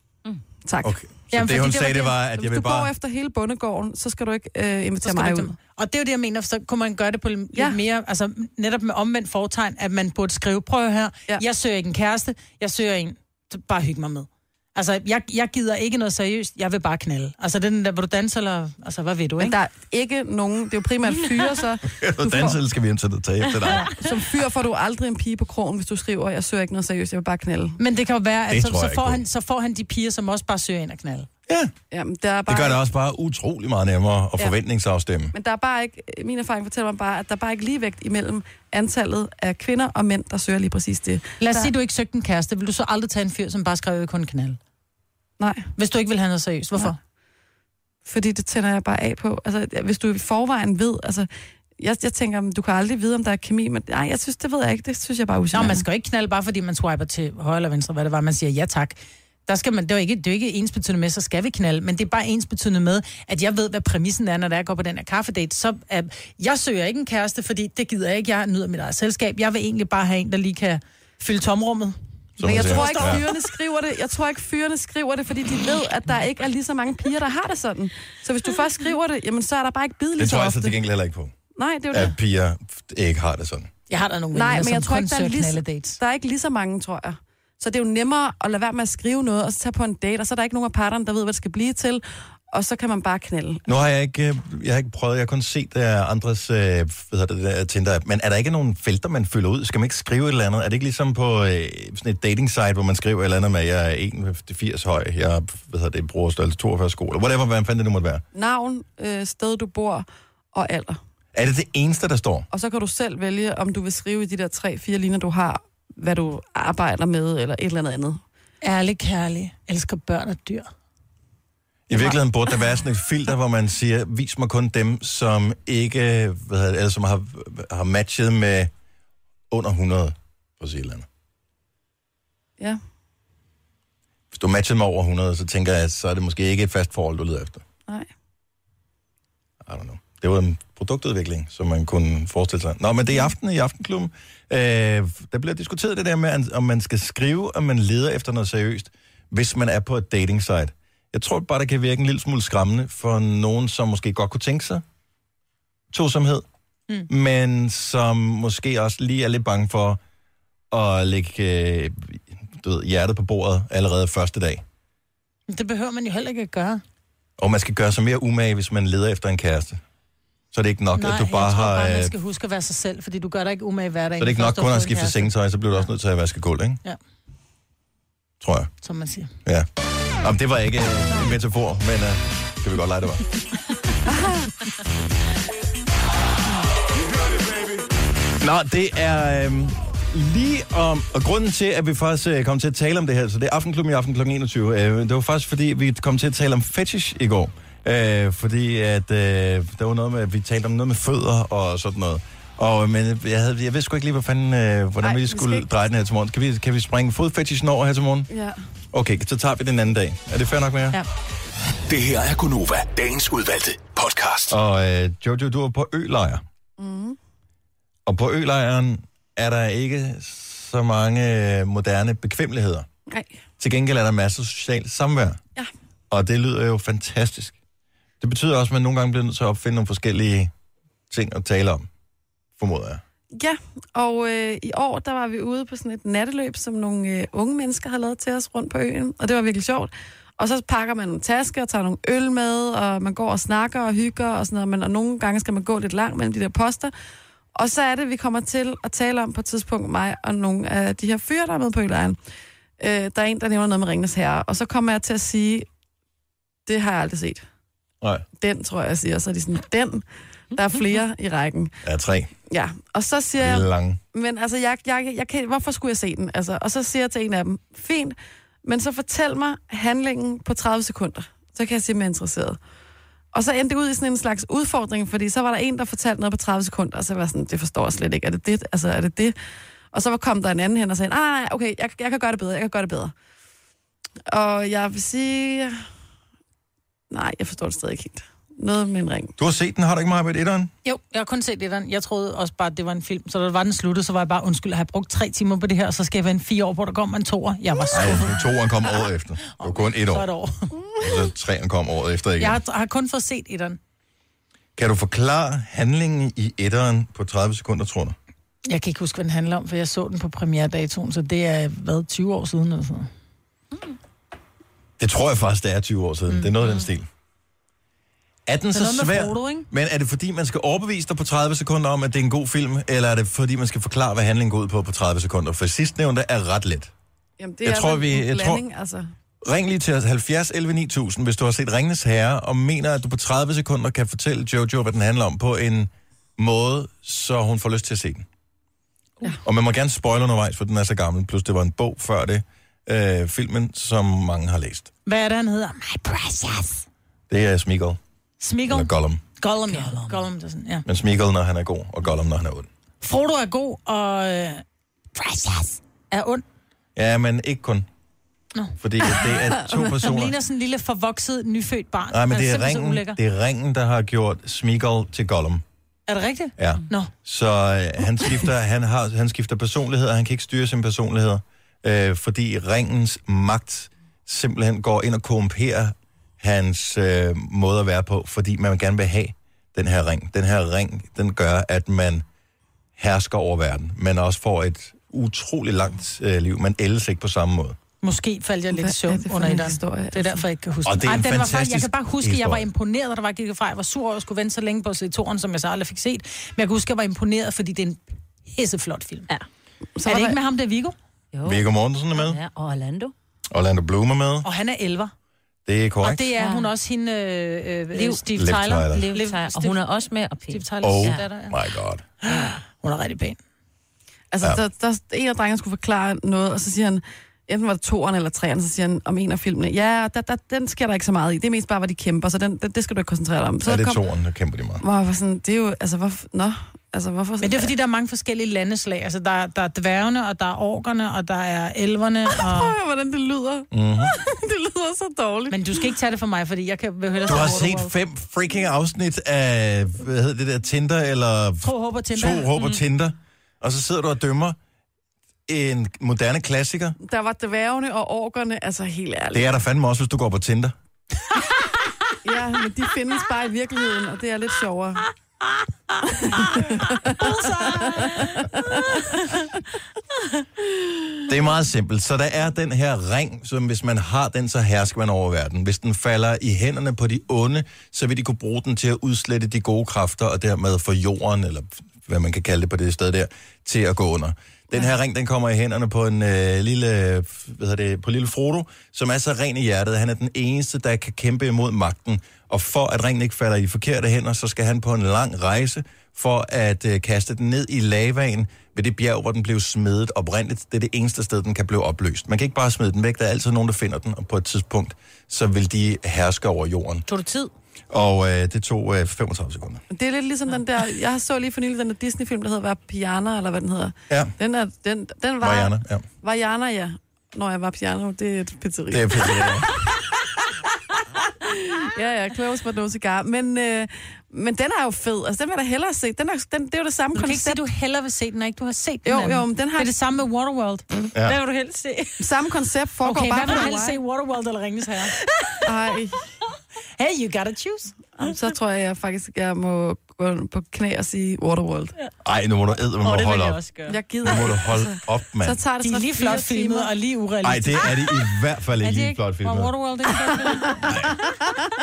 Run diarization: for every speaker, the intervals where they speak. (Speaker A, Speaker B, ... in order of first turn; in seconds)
Speaker A: 0.7-0.9, 2.4-5.6, 7.5-7.8, 19.4-22.6, 23.9-27.8, 31.9-32.8, 35.3-41.7, 45.4-45.7, 48.0-51.3, 51.8-55.9, 72.4-80.8, 81.6-82.2, 84.3-93.7, 108.3-111.0, 112.5-118.2, 205.0-205.7, 208.3-208.6, 216.8-217.2, 233.3-246.9, 247.6-252.2, 252.8-255.7, 256.7-257.4, 258.4-261.8, 262.5-272.6, 273.3-279.4, 279.9-283.1, 284.3-285.8, 287.1-289.3, 327.4-329.1, 388.7-390.4, 400.0-400.4, 414.3-424.0, 424.8-427.7, 432.4-435.9, 437.3-437.6, 447.0-449.5, 452.2-455.1, 456.2-459.0, 499.9-509.9, 510.9-517.6, 519.0-519.9, 522.2-524.0, 525.6-526.2, 528.2-531.9, 533.9-536.9
Speaker B: 0.8-2.9, 21.8-24.0, 28.5-29.2, 31.5-31.7, 32.5-35.3, 72.4-73.3, 80.2-81.3, 81.9-83.7, 93.7-108.2, 111.3-112.5, 121.9-128.7, 129.5-131.1, 134.3-137.6, 139.6-154.8, 155.9-156.5, 157.1-160.0, 160.7-164.6, 167.4-169.8, 170.5-172.1, 174.2-176.8, 178.4-178.7, 180.2-183.3, 188.4-208.3, 208.9-211.0, 214.5-216.4, 218.1-222.9, 223.6-225.4, 226.1-227.6, 228.2-230.5, 231.1-231.9, 232.6-233.0, 261.8-262.3, 263.4-264.0, 289.4-290.7, 297.9-300.3, 301.0-302.6, 304.8-308.2, 315.0-317.1, 318.5-326.9, 327.6-328.6, 329.4-338.3, 339.4-344.9, 347.3-348.0, 348.7-349.2, 350.9-352.7, 356.9-357.9, 358.8-360.4, 362.1-365.6, 366.6-382.2, 383.0-387.8, 390.9-392.7, 401.4-402.4, 403.5-404.5, 405.7-406.3, 408.4-409.1, 410.8-412.1, 423.6-424.8, 433.7-434.1, 437.3-444.6, 445.5-447.0, 449.3-450.8, 461.3-497.0, 497.9-499.8, 504.1-504.3, 505.4-506.1, 508.9-509.7, 532.2-533.6, 534.2-535.6, 537.4-539.7, 540.9-541.2
Speaker C: 1.3-2.1, 5.0-19.6, 27.8-31.3, 41.4-44.6, 45.8-47.0, 55.5-73.1, 83.9-86.0, 118.6-120.7, 165.5-166.8, 170.9-175.3, 178.8-179.3, 290.8-298.4, 299.5-300.8, 302.4-303.8, 308.7-313.1, 318.7-319.7, 345.1-346.9, 348.4-350.9, 353.0-354.6, 355.1-356.4, 359.7-363.2, 366.1-367.1, 388.0-398.0, 398.5-399.3, 400.1-401.0, 404.4-405.1, 406.0-409.8, 410.5-411.5, 412.2-413.4, 427.4-432.8, 435.5-437.9, 441.6-442.5, 456.1-459.0, 517.1-520.9, 523.0-525.1, 527.0-528.0, 535.8-538.0, 538.8-540.9
Speaker D: 211.9-214.6
Speaker E: 349.8-350.1, 401.3-403.1, 406.4-406.7, 407.9-411.2, 497.1-497.5, 521.2-522.2, 533.0-534.0